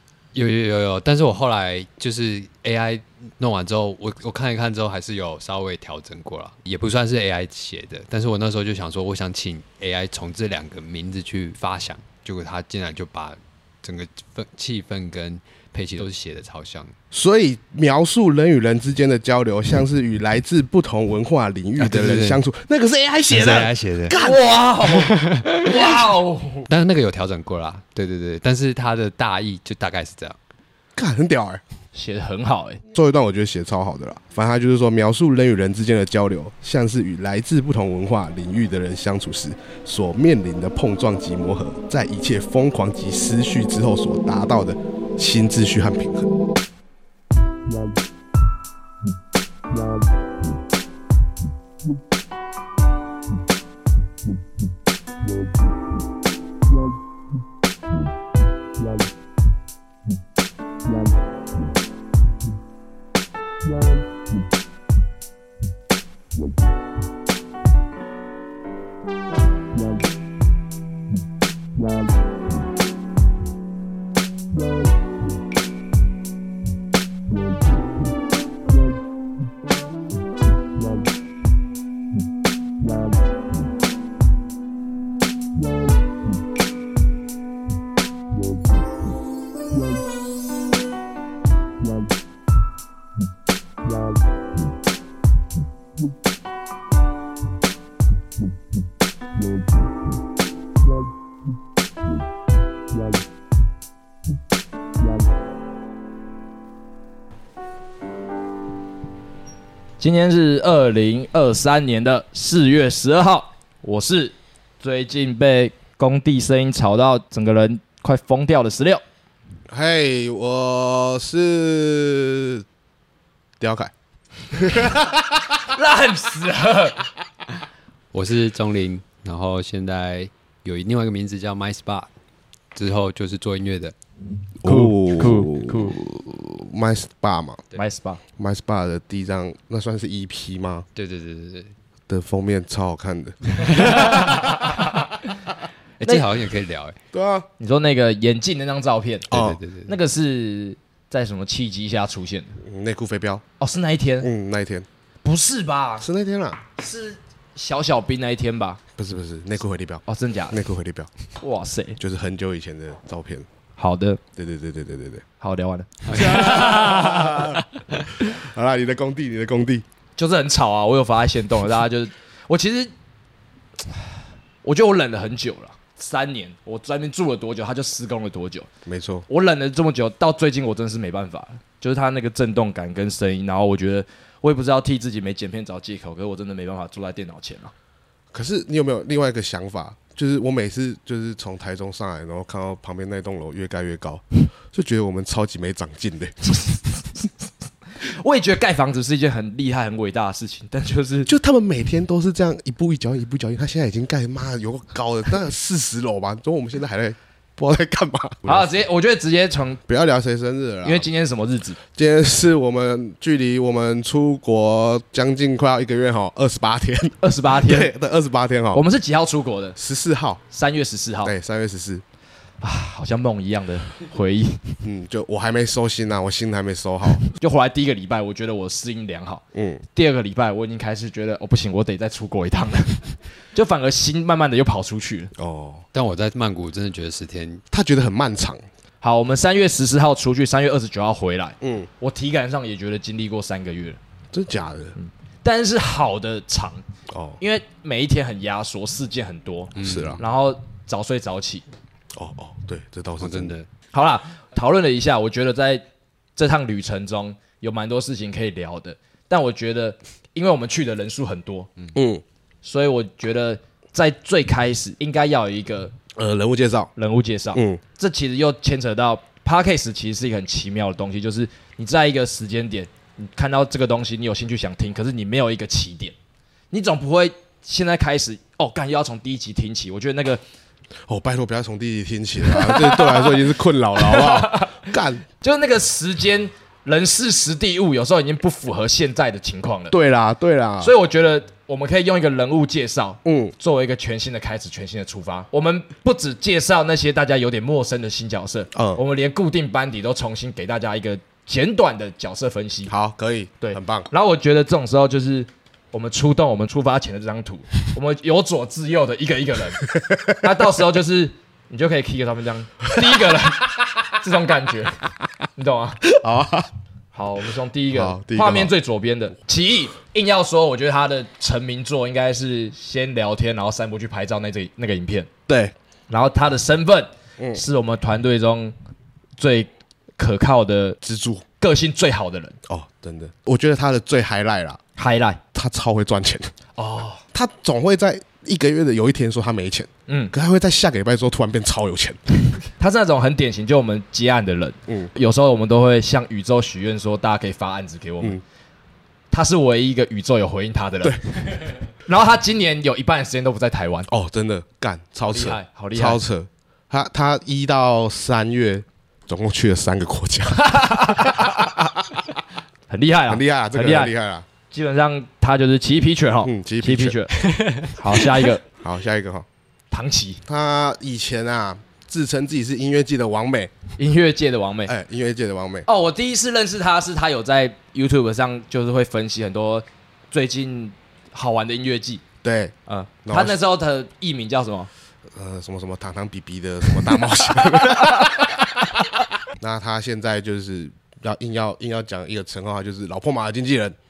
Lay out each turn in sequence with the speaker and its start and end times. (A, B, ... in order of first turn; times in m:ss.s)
0:00.3-0:16.9 A
0:17.1-0:24.4 B
0:21.8-0:22.4 A
0:23.3-0:24.2 A
0:24.2-0:26.6 C
0:25.0-0:25.8 A
0:26.7-0:30.4 A
0:31.0-0:31.6 B
0:32.0-0:32.8 C
0:32.9-0:46.3 B
1:50.0-1:59.0 C
1:59.7-2:02.6 B
2:03.6-2:03.9 B
2:04.5-2:05.5 B
2:05.7-2:07.1 C
2:08.1-2:12.1 A
2:12.8-2:13.9 A
2:14.6-2:17.6 B
2:14.6-2:16.0 C
2:17.8-2:18.2 C
2:18.4-2:20.9 B
2:21.0-2:21.7 A
2:22.1-2:24.5 B
2:23.9-2:24.2 A
2:24.1-2:25.0 C
2:26.0-2:27.0 A
2:27.1-2:27.5 B
2:27.6-2:29.3 C
2:29.3-2:29.6 B
2:29.3-2:29.9 A
2:29.9-2:32.6 C
2:32.6-2:33.4 B
2:33.6-2:34.3 C
2:34.2-2:34.9 B
2:35.2-2:36.1 C
2:36.0-2:36.6 B
2:36.8-2:38.8 C
2:39.0-2:41.1 B
2:40.1-2:40.6 C
2:41.4-2:42.0 C
2:42.0-2:43.5 B
2:43.8-2:44.2 C
2:44.4-2:45.2 B
2:45.4-2:47.4 C
2:46.1-2:47.3 A
2:46.1-2:47.6 B
2:48.3-2:49.8 B
2:50.2-2:52.9 C
2:54.6-2:58.7 C
2:58.9-2:59.2 B
2:59.3-3:07.7 C
3:08.3-3:16.7 B
3:18.0-3:21.3 C
3:21.3-3:28.7 B
3:28.4-3:29.8 C
3:29.9-3:31.1 B
3:30.8-3:31.8 C
3:32.0-3:38.8 B
3:37.2-3:37.9 C
3:38.7-3:39.8 C
3:39.8-3:40.4 B
3:40.5-3:41.3 C
3:41.2-3:42.0 B
3:42.6-3:44.8 C
3:44.8-3:47.2 B
3:47.3-3:49.4 C
3:49.5-3:49.8 B
3:49.9-3:55.3 C
3:55.4-3:55.8 B
3:55.9-3:57.6 A
3:57.7-3:58.6 B
3:59.0-4:04.0 C
4:01.6-4:01.9 B
4:04.3-4:05.0 B
4:05.0-4:06.8 C
4:07.1-4:07.4 B
4:07.4-4:11.6 C
4:09.8-4:10.2 A
4:09.8-4:10.2 B
4:12.1-4:13.6 B
4:13.2-4:13.7 A
4:13.9-4:15.8 C
4:16.4-4:21.7 C
4:22.0-4:22.2 B
4:22.6-4:25.9 C
4:26.2-4:26.9 B
4:27.0-4:36.2 C
4:27.6-4:27.8 B
4:36.7-4:40.4 C
4:41.1-4:45.2 B
4:42.5-4:43.4 C
4:44.0-4:44.8 C
4:45.4-4:49.9 C
4:49.9-4:50.9 B
4:50.8-5:02.9 C
4:53.2-4:53.6 B
4:58.7-4:59.0 B
5:02.9-5:04.1 B
5:03.6-5:15.0 C
5:10.0-5:10.3 B
5:15.6-5:16.0 C
5:16.0-5:16.7 B
5:17.1-5:25.3 C
5:17.9-5:18.7 B
5:25.5-5:25.7 B
5:26.1-5:28.8 C
5:29.4-5:31.0 C
5:31.0-5:31.4 B
5:31.6-5:32.6 C
5:32.7-5:34.8 B
5:35.0-5:35.4 C
5:35.5-5:36.5 B
5:36.8-5:37.2 C
5:37.3-5:42.2 B
5:40.1-5:40.3 C
5:42.8-5:48.4 C
5:49.3-5:54.1 C
5:54.1-6:02.4 B
5:55.3-5:56.2 C
6:00.6-6:01.6 C
6:02.9-6:04.1 C
6:03.3-6:04.5 B
6:04.7-6:07.3 C
6:06.4-6:07.2 B
6:07.4-6:08.3 A
6:07.9-6:08.6 C
6:08.8-6:09.5 B
6:09.9-6:10.4 C
6:10.5-6:13.7 B
6:14.0-6:14.9 C
6:14.9-6:15.9 B
6:15.9-6:22.2 C
6:22.4-6:22.7 B
6:22.9-6:24.9 C
6:23.2-6:23.6 B
6:25.3-6:28.9 B
6:27.9-6:28.4 C
6:29.6-6:34.0 B